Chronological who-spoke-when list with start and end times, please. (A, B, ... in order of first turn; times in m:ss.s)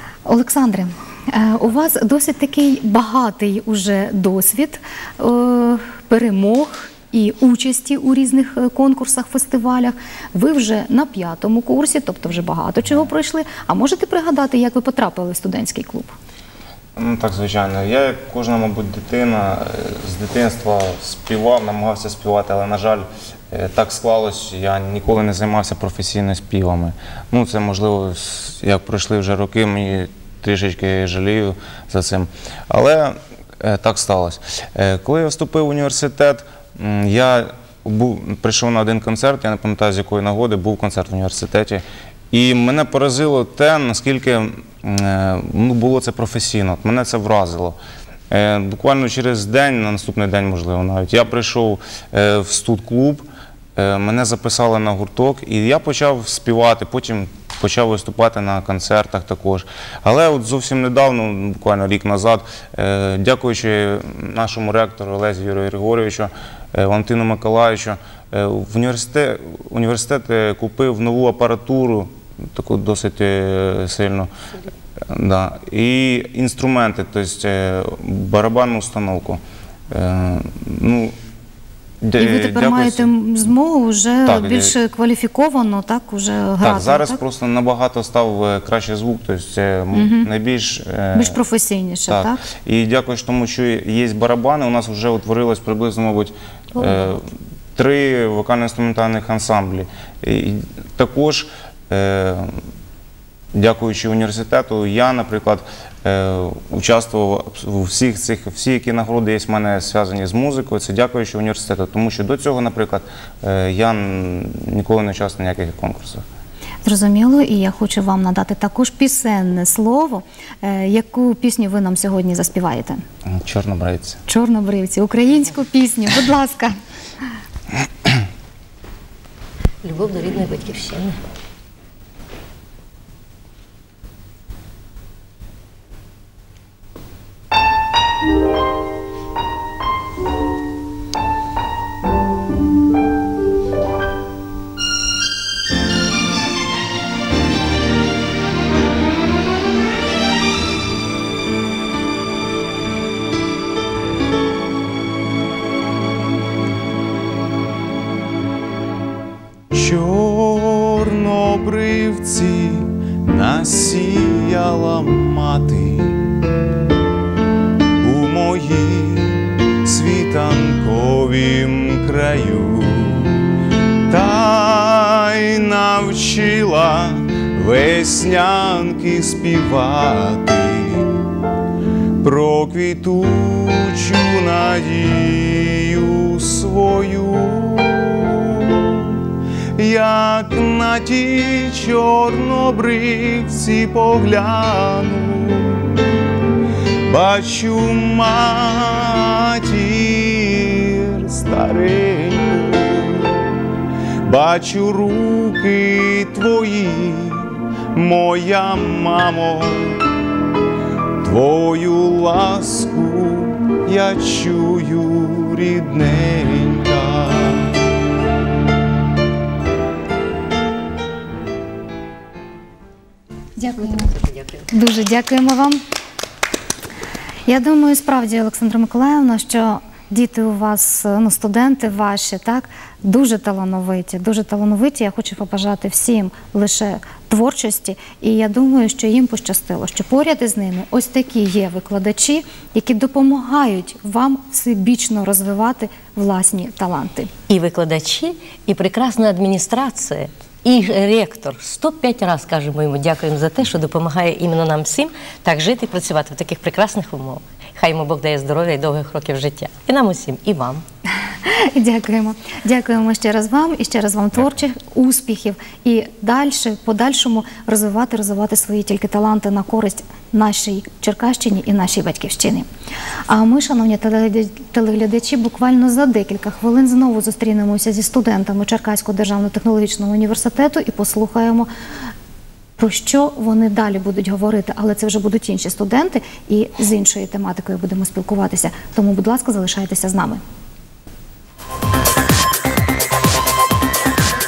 0:00.3-0:16.1 A
0:17.0-0:47.8 B
0:48.3-1:14.3 B
1:15.1-1:19.4 B
1:19.9-1:21.2 B
1:22.0-1:23.1 B
1:22.2-1:27.2 A
1:24.3-1:24.7 B
1:26.6-1:31.4 B
1:29.9-1:30.3 A
1:31.1-1:32.4 A
1:32.1-1:37.2 B
1:37.8-1:42.6 B
1:43.5-1:56.2 B
1:56.8-2:03.0 A
2:03.3-2:04.2 B
2:04.3-2:06.8 A
2:09.8-2:11.2 C
2:39.7-2:46.4 D
2:48.0-2:53.3 D
2:54.1-3:01.2 D
3:02.2-3:09.1 D
3:09.8-3:16.0 D
3:17.1-3:23.4 D
3:24.2-3:30.0 D
3:31.2-3:37.8 D
3:43.6-3:44.1 A
3:44.7-3:45.8 A
3:47.5-4:07.3 A
4:07.5-4:20.8 C
4:21.4-4:32.7 A
4:33.3-4:41.7 A
4:42.8-4:50.4 A